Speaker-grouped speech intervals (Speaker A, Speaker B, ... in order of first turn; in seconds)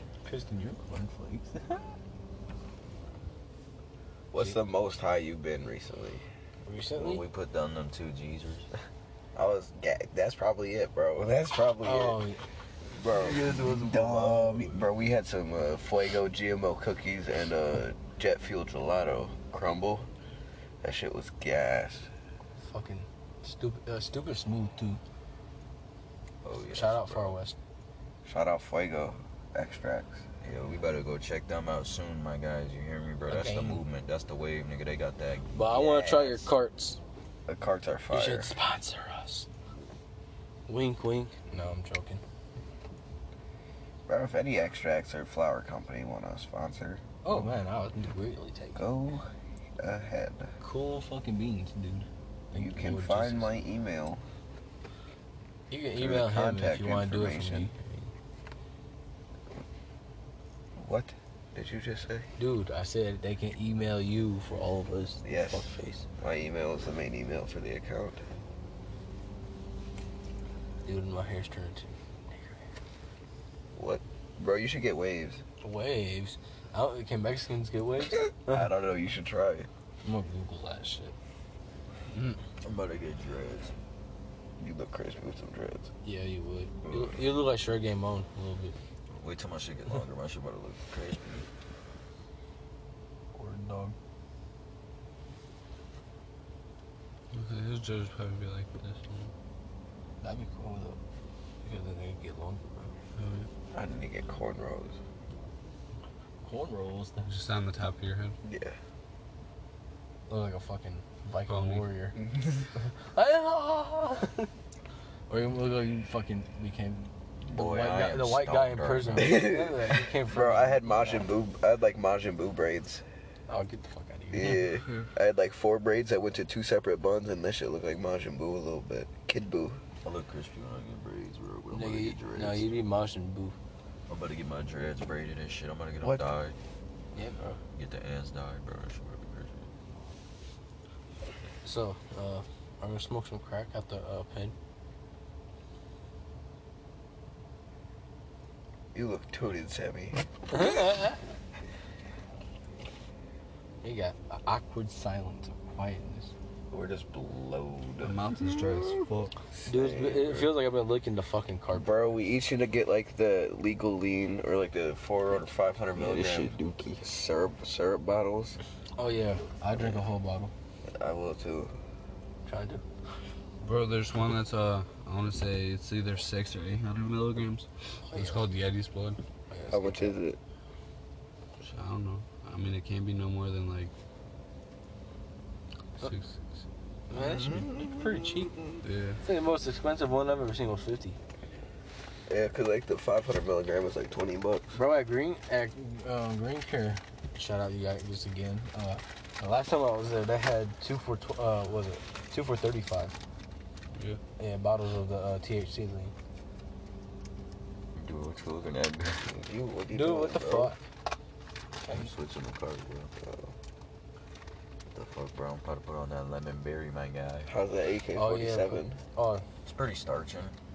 Speaker A: 0.2-1.9, 6.7-7.2, 11.8-12.4, 13.4-14.4, 22.6-25.0, 26.7-27.6, 33.3-33.8, 35.5-37.0, 38.1-39.5, 40.7-42.2, 47.2-48.8, 50.6-53.5, 55.7-58.1, 62.4-66.1, 70.8-72.6, 75.6-78.7, 80.0-81.1, 86.0-88.8, 93.3-94.0, 100.2-101.0, 101.6-102.9, 106.4-107.3, 110.3-112.2, 113.0-114.5, 115.3-121.3, 123.5-124.6, 131.7-133.6, 137.1-137.6, 141.6-144.5, 150.5-151.1, 153.8-156.3, 159.7-161.9, 169.0-170.5, 172.4-172.8, 178.0-178.4, 179.5-180.2, 187.1-188.6, 189.2-191.2, 194.7-203.1, 204.4-206.1, 209.9-210.8, 211.8-212.1, 218.1-219.4
Speaker B: 4.3-6.2, 9.3-12.2, 12.9-20.1, 20.8-22.1, 28.2-30.3, 36.1-36.4, 37.5-38.5, 44.1-47.0, 48.7-49.3, 49.8-50.5, 52.5-54.2, 55.9-57.7, 60.8-62.3, 65.2-65.7, 66.2-68.3, 73.7-75.4, 78.5-79.7, 84.6-85.9, 86.8-87.2, 103.7-105.0, 108.4-108.8, 112.1-112.7, 119.1-123.0, 124.3-129.8, 136.0-136.3, 148.9-150.6, 159.6-160.5, 161.7-168.6, 170.9-171.8, 179.7-180.4, 187.1-188.8, 192.3-194.8, 209.2-210.7, 213.2-213.5, 217.5-219.0
Speaker C: 7.0-8.7, 26.4-27.4, 30.4-36.2, 82.6-83.7, 89.1-91.5, 117.4-119.5, 130.0-132.8, 134.1-136.6, 137.7-139.7, 156.7-158.1, 165.9-167.0, 207.9-209.2, 211.9-213.1, 214.9-217.5, 219.6-220.5
Speaker D: 82.1-82.4, 97.3-99.3, 103.2-103.5, 107.2-108.4, 111.5-111.9, 124.4-125.1, 158.0-159.3, 173.6-179.2, 181.6-183.9, 186.0-186.6, 188.8-189.2, 203.9-204.2